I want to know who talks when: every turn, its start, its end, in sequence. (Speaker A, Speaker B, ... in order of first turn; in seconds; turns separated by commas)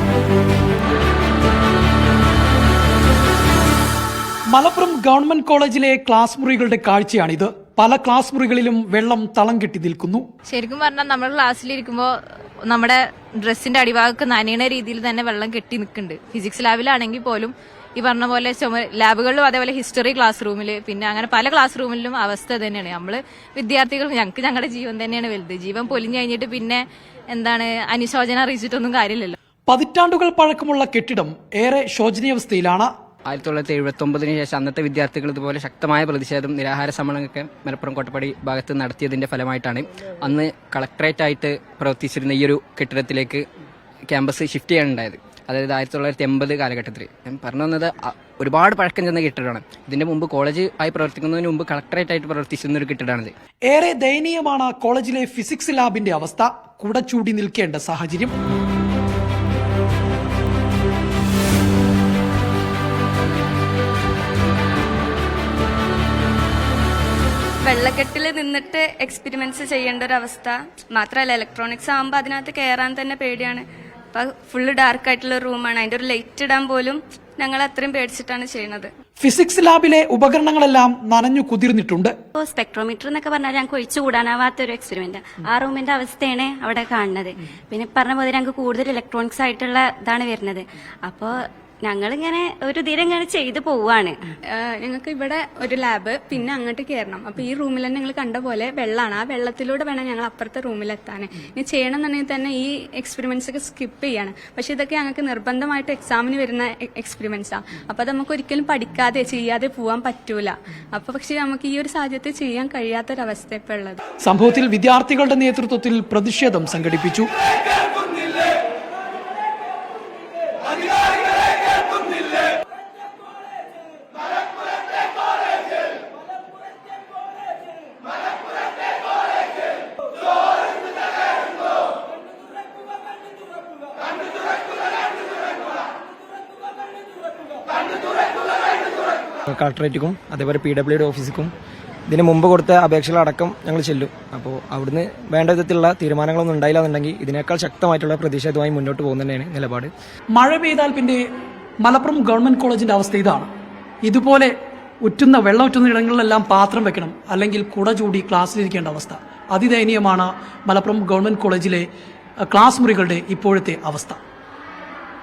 Speaker A: 4.5-10.3, Speaker B: 10.5-12.2, Speaker B: 12.7-29.4, Speaker A: 29.7-32.9, Speaker C: 33.3-43.4, Speaker C: 44.1-53.3, Speaker A: 53.7-58.3, Speaker D: 67.7-78.9, Speaker A: 79.2-82.2, Speaker E: 82.4-94.2, Speaker F: 94.5-114.0, Speaker A: 114.2-117.3, Speaker G: 139.5-141.5, Speaker G: 142.1-149.9, Speaker A: 150.3-151.2, Speaker A: 151.8-153.5, Speaker A: 154.0-154.5, Speaker A: 155.1-161.9, Speaker A: 162.5-164.2